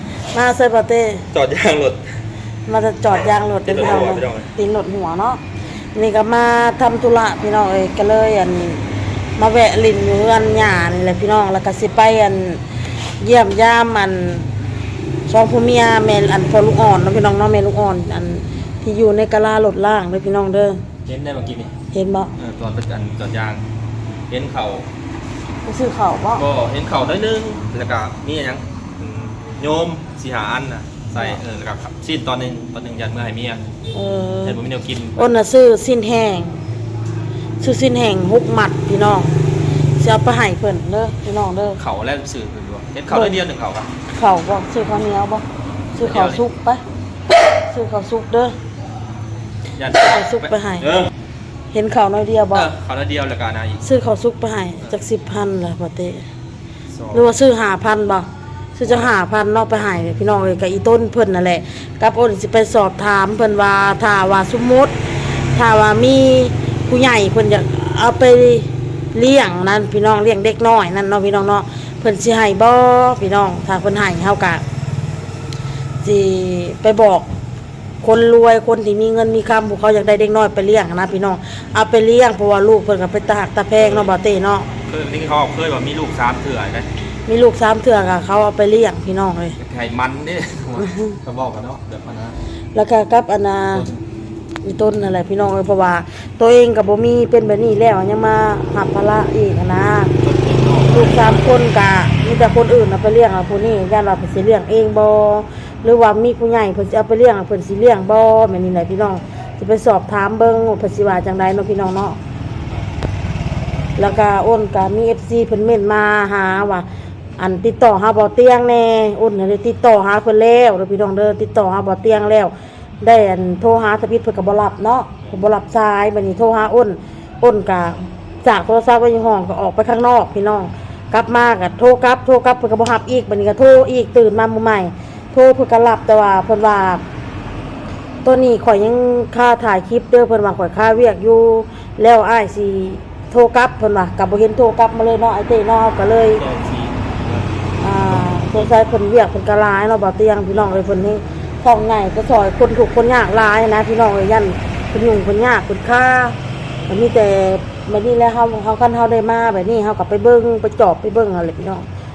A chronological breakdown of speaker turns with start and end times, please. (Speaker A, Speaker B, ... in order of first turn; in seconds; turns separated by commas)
Speaker A: 0.3-1.3, Speaker B: 1.3-2.2, Speaker A: 2.7-5.4, Speaker B: 3.7-4.5, Speaker A: 5.9-14.5, Speaker A: 15.3-20.8, Speaker B: 21.1-21.7, Speaker A: 21.9-22.3, Speaker B: 22.4-23.6, Speaker B: 24.3-24.9, Speaker A: 25.6-26.4, Speaker B: 26.3-33.6, Speaker A: 33.9-34.6, Speaker B: 34.4-35.3, Speaker A: 35.2-36.6, Speaker A: 37.6-39.4, Speaker A: 40.0-41.8, Speaker B: 41.8-43.9, Speaker A: 43.1-43.4, Speaker A: 44.1-46.8, Speaker B: 46.0-46.4, Speaker A: 47.5-48.5, Speaker B: 49.8-51.1, Speaker A: 49.9-50.9, Speaker A: 51.7-52.7, Speaker B: 52.5-53.9, Speaker A: 53.8-56.2, Speaker B: 56.9-57.4, Speaker A: 57.1-74.6, Speaker B: 58.9-59.1, Speaker A: 76.0-77.3, Speaker A: 78.0-84.7, Speaker B: 83.8-84.1, Speaker B: 84.8-86.9, Speaker A: 87.3-89.6, Speaker B: 89.6-92.4, Speaker A: 90.8-91.2, Speaker A: 92.7-93.9, Speaker B: 93.7-94.0, Speaker A: 94.6-100.1, Speaker B: 100.2-101.5, Speaker A: 100.9-112.2, Speaker A: 114.0-116.9, Speaker A: 117.4-137.0, Speaker A: 138.2-146.4, Speaker B: 146.3-147.5, Speaker A: 147.8-156.4, Speaker B: 148.1-148.7, Speaker B: 150.5-150.8, Speaker A: 156.9-161.9